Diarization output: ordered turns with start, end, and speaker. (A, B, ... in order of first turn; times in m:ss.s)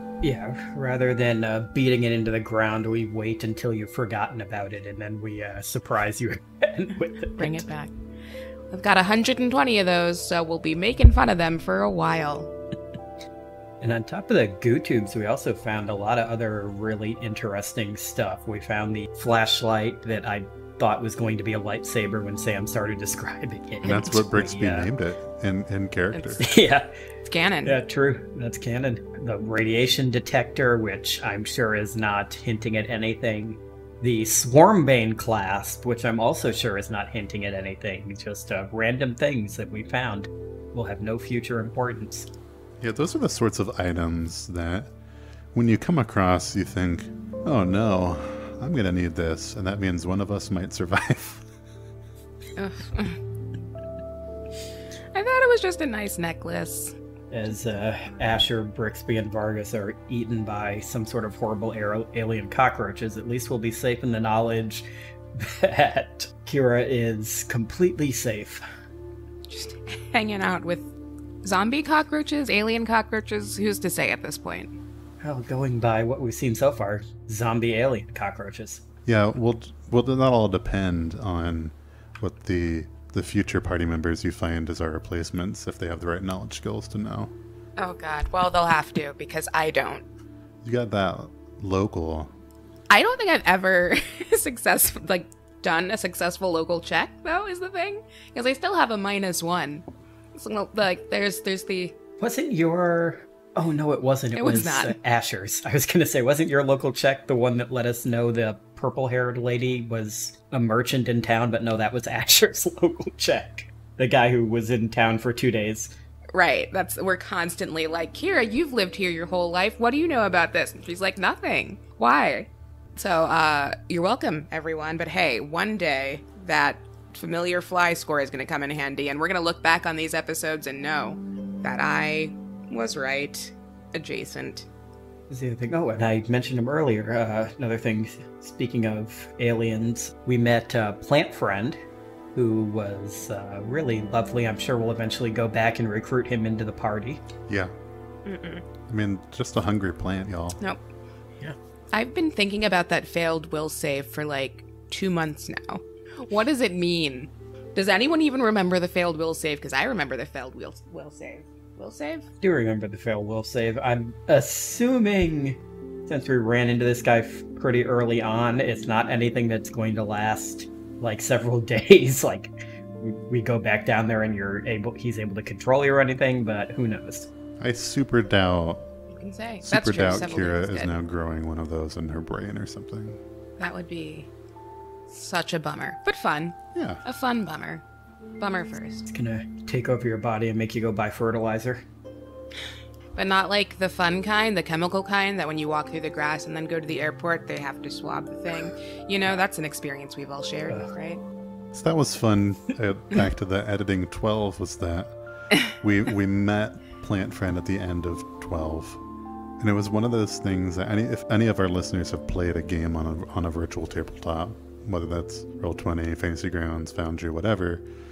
0:00.2-0:07.7 A
0:07.4-0:07.9 B
0:08.7-0:12.5 B
0:13.8-0:24.9 A
0:23.8-0:26.4 C
0:26.4-0:26.9 A
0:27.3-0:27.8 B
0:27.6-0:42.3 A
0:42.8-0:44.9 C
0:45.5-0:51.5 C
0:52.6-0:53.2 B
0:55.1-0:57.0 B
0:57.3-1:08.6 A
1:09.5-1:10.9 B
1:11.4-1:14.8 B
1:15.2-1:18.8 A
1:19.1-1:27.3 C
1:27.8-1:30.0 B
1:30.6-1:32.3 C
1:32.9-1:42.0 B
1:42.2-1:55.9 A
1:44.4-1:45.0 B
1:56.3-2:14.7 B
2:15.3-2:21.8 A
2:22.4-2:27.2 A
2:27.5-2:27.7 C
2:28.2-2:28.6 B
2:28.9-2:30.6 C
2:31.9-2:42.3 B
2:42.4-2:57.3 A
2:57.6-2:58.9 C
2:59.1-3:01.0 B
2:59.6-3:03.2 C
3:03.6-3:04.3 B
3:05.1-3:07.8 B
3:06.8-3:07.0 C
3:08.4-3:09.1 B
3:09.1-3:11.8 A
3:13.2-3:21.2 B
3:21.7-3:25.2 C
3:25.7-3:29.0 C
3:29.6-3:37.8 C